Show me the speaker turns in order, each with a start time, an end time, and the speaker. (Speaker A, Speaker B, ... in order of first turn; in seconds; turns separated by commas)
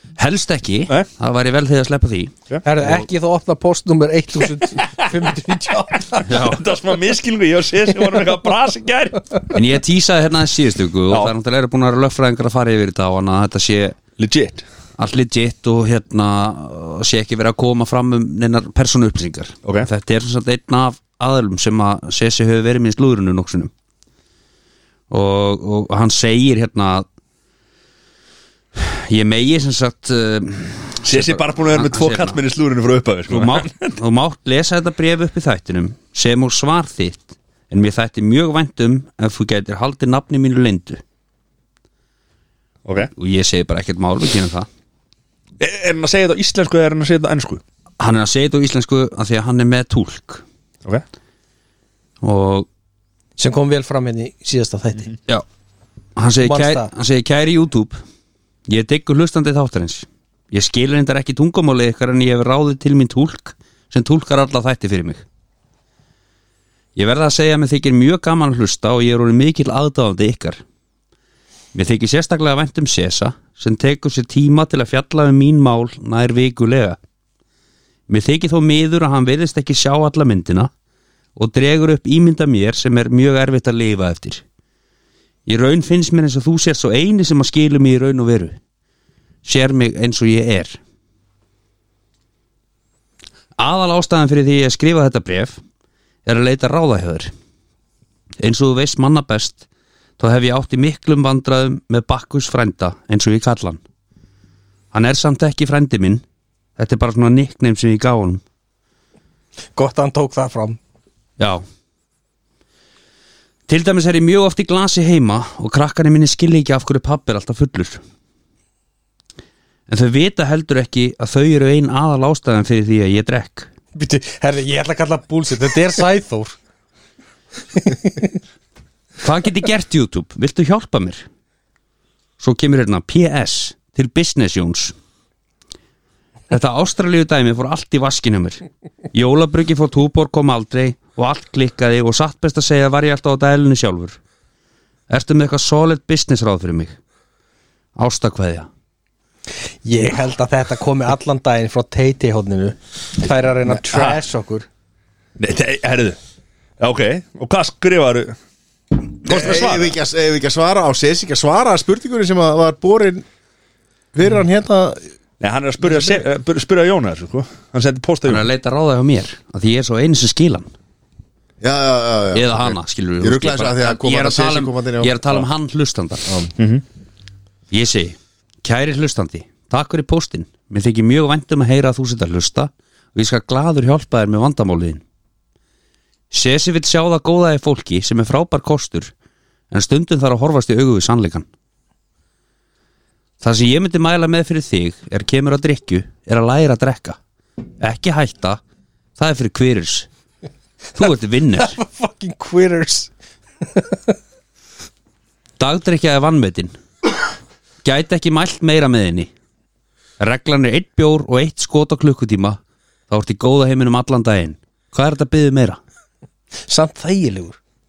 Speaker A: 0.2-3.0, Speaker B: 2.6-6.2, Speaker C: 4.8-5.0, Speaker C: 6.1-9.4, Speaker A: 6.2-6.6, Speaker A: 9.5-14.0, Speaker C: 14.2-14.6, Speaker A: 15.0-23.7, Speaker A: 25.1-27.1, Speaker A: 28.8-32.4, Speaker C: 31.0-34.0, Speaker A: 33.3-41.0, Speaker C: 42.9-43.1, Speaker A: 43.2-44.7, Speaker C: 45.6-47.6, Speaker A: 48.0-50.4, Speaker A: 52.2-52.7, Speaker B: 53.4-55.1, Speaker A: 56.2-58.0, Speaker B: 56.4-56.9, Speaker A: 58.7-65.2, Speaker A: 67.0-70.6, Speaker A: 71.7-77.0, Speaker A: 78.1-80.7, Speaker A: 81.4-84.4, Speaker A: 85.5-88.6, Speaker A: 89.4-90.8, Speaker A: 93.6-95.6, Speaker A: 96.2-97.3, Speaker A: 98.4-99.6, Speaker A: 100.2-103.8, Speaker A: 104.9-106.2, Speaker A: 106.8-108.4, Speaker B: 109.7-110.8, Speaker A: 113.7-118.0, Speaker A: 119.9-123.7, Speaker B: 124.0-126.6, Speaker B: 127.8-128.2, Speaker A: 129.2-131.2, Speaker A: 132.4-134.9, Speaker A: 136.5-144.2, Speaker A: 145.1-146.9, Speaker A: 147.9-148.7, Speaker B: 149.8-154.7, Speaker C: 153.7-154.2, Speaker C: 155.4-156.2, Speaker C: 156.8-158.3, Speaker C: 159.2-159.9, Speaker D: 159.2-163.2, Speaker D: 164.1-165.0, Speaker C: 165.4-168.4, Speaker A: 168.3-170.7, Speaker D: 171.6-175.4, Speaker A: 172.3-176.2, Speaker D: 176.2-176.5, Speaker C: 176.6-176.8, Speaker A: 177.7-185.0, Speaker A: 186.3-189.1, Speaker A: 189.7-191.5, Speaker A: 193.4-197.2, Speaker A: 197.8-198.6, Speaker A: 199.2-200.1, Speaker A: 200.9-201.8, Speaker B: 201.6-203.1, Speaker B: 203.7-204.1, Speaker A: 205.6-206.7, Speaker A: 207.8-209.3, Speaker A: 210.2-212.6, Speaker A: 213.1-215.8, Speaker B: 216.7-217.6